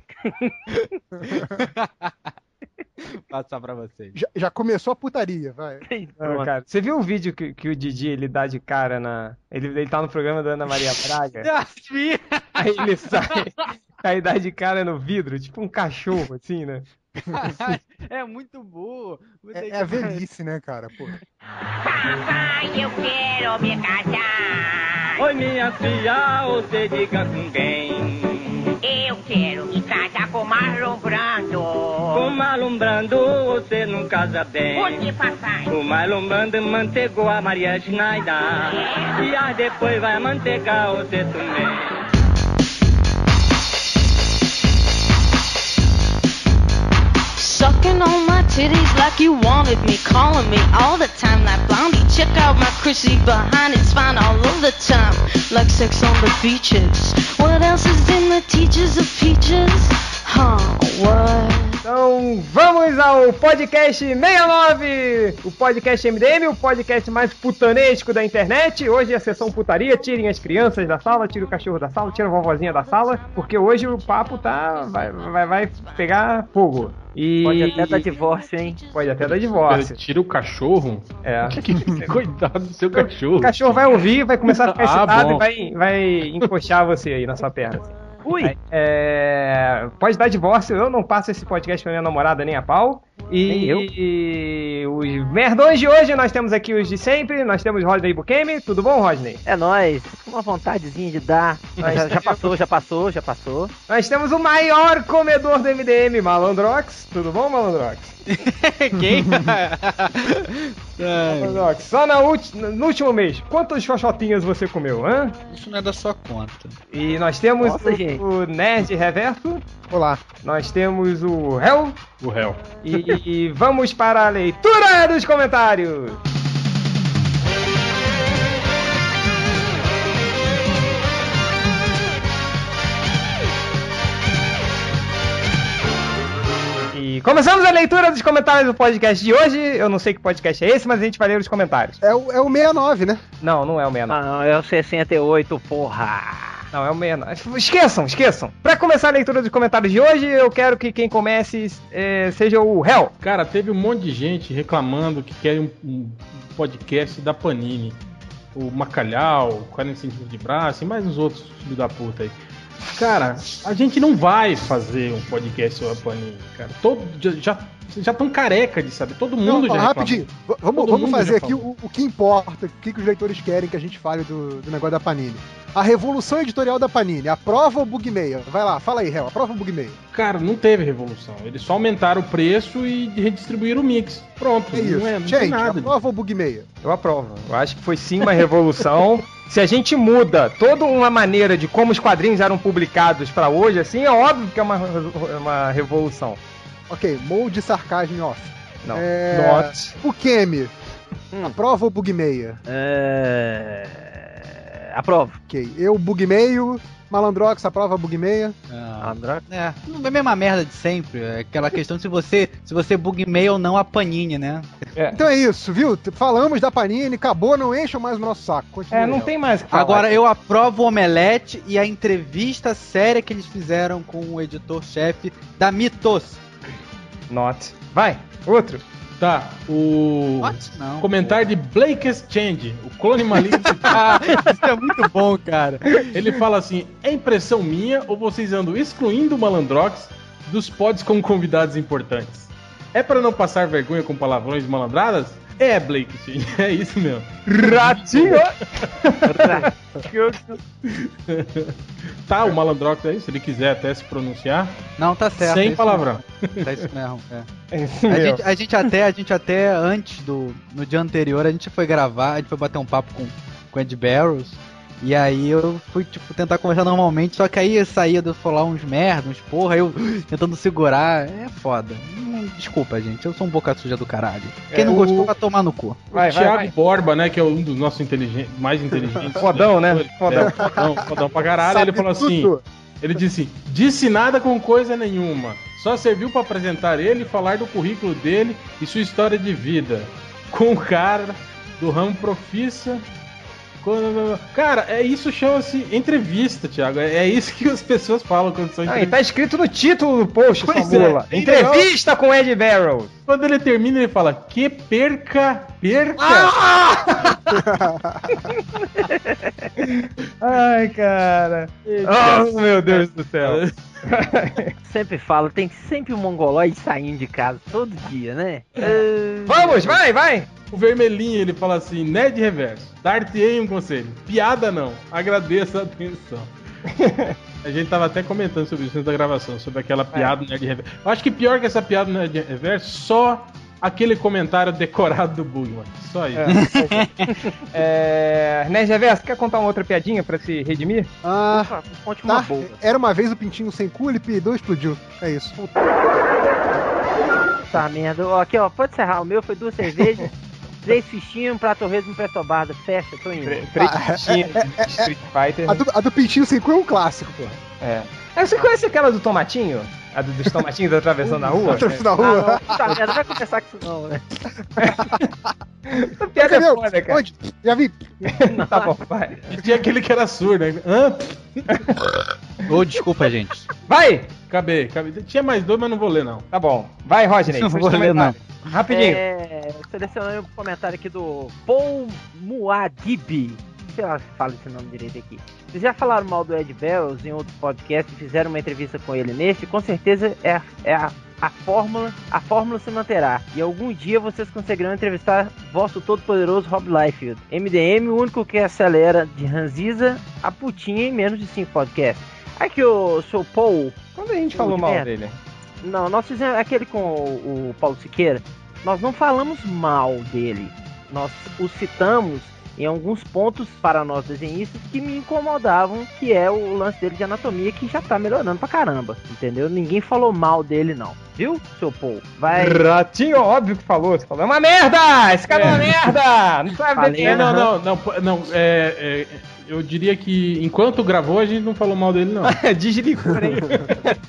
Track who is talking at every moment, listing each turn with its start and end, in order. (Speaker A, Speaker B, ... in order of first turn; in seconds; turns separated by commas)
Speaker A: 0.2-0.5, Speaker B: 0.7-2.3, Speaker B: 3.1-4.2, Speaker C: 4.1-5.8, Speaker A: 5.8-6.5, Speaker D: 6.2-11.5, Speaker B: 11.4-13.4, Speaker D: 12.6-16.9, Speaker B: 17.3-20.2, Speaker C: 17.4-17.8, Speaker C: 19.5-21.1, Speaker E: 21.8-25.2, Speaker F: 25.2-28.7, Speaker E: 28.8-32.4, Speaker F: 32.1-35.1, Speaker E: 34.7-35.7, Speaker F: 35.7-41.9, Speaker E: 38.7-39.1, Speaker G: 47.4-61.8, Speaker D: 61.8-78.1, Speaker A: 77.4-78.8, Speaker D: 78.9-79.9, Speaker H: 79.2-85.4, Speaker D: 81.2-82.1, Speaker D: 82.9-87.9, Speaker A: 88.2-88.5, Speaker D: 88.7-99.4, Speaker A: 93.5-93.9, Speaker A: 99.4-103.7, Speaker D: 101.8-102.5, Speaker D: 103.9-108.2, Speaker B: 108.3-111.7, Speaker D: 111.3-115.3, Speaker B: 115.5-116.8, Speaker D: 116.9-119.6, Speaker A: 117.6-118.2, Speaker C: 119.9-120.2, Speaker D: 120.4-122.0, Speaker H: 122.2-122.6, Speaker D: 122.8-126.2, Speaker D: 136.9-142.0, Speaker C: 142.0-143.2, Speaker D: 143.4-144.2, Speaker A: 144.1-146.6, Speaker D: 146.7-153.1, Speaker H: 153.2-158.0, Speaker H: 158.5-171.6, Speaker C: 169.4-180.0, Speaker H: 180.1-185.9, Speaker C: 184.7-186.7, Speaker D: 186.8-196.4, Speaker C: 196.9-200.7, Speaker D: 198.8-199.9, Speaker C: 201.4-202.6, Speaker A: 202.7-205.4, Speaker C: 205.5-208.6, Speaker B: 208.7-214.9, Speaker A: 209.0-209.4, Speaker C: 215.1-219.3, Speaker D: 218.9-220.2, Speaker B: 219.7-226.4, Speaker D: 227.3-228.8, Speaker H: 229.2-234.2, Speaker B: 230.4-231.4, Speaker B: 233.8-236.1, Speaker H: 236.1-248.4, Speaker D: 247.5-249.6, Speaker A: 249.3-250.6, Speaker H: 250.9-251.7, Speaker H: 252.2-254.8, Speaker B: 255.0-257.5, Speaker H: 255.4-256.6, Speaker D: 257.7-258.4, Speaker B: 258.1-276.1, Speaker D: 274.7-275.3, Speaker D: 276.1-276.7, Speaker H: 276.1-293.0, Speaker D: 279.4-280.8, Speaker C: 280.4-280.8, Speaker C: 281.6-282.6, Speaker H: 293.8-299.1, Speaker D: 298.9-303.1, Speaker H: 300.6-301.9, Speaker H: 303.3-306.5, Speaker D: 306.2-307.6, Speaker C: 307.5-308.4, Speaker D: 308.3-308.6, Speaker A: 309.0-309.7, Speaker D: 309.8-314.7, Speaker H: 311.9-313.7, Speaker A: 314.9-320.0, Speaker D: 319.5-320.5, Speaker H: 320.7-326.5, Speaker D: 326.9-327.4, Speaker H: 327.6-336.5, Speaker D: 336.3-337.1, Speaker B: 336.5-337.3, Speaker D: 337.7-341.1, Speaker C: 341.2-341.7, Speaker A: 341.5-342.8, Speaker C: 342.2-345.6, Speaker A: 347.7-350.3, Speaker A: 350.8-353.6, Speaker D: 353.4-355.8, Speaker C: 353.8-355.1, Speaker C: 355.6-357.6, Speaker D: 357.8-361.8, Speaker C: 361.2-363.1, Speaker A: 362.0-364.2, Speaker D: 364.8-365.2, Speaker C: 364.8-365.2, Speaker D: 365.9-367.2, Speaker C: 366.4-368.3, Speaker D: 368.2-369.4, Speaker A: 368.5-368.9, Speaker H: 369.5-371.8, Speaker D: 371.7-372.0, Speaker B: 372.7-373.7, Speaker D: 373.9-374.3, Speaker H: 374.5-376.5, Speaker D: 376.5-379.2, Speaker B: 377.5-378.6, Speaker A: 378.9-403.9, Speaker D: 404.1-405.4, Speaker A: 404.5-405.1, Speaker A: 405.8-422.8, Speaker D: 422.5-427.5, Speaker H: 425.5-426.0, Speaker A: 426.9-427.6, Speaker H: 427.2-432.6, Speaker D: 432.5-434.1, Speaker H: 433.5-433.9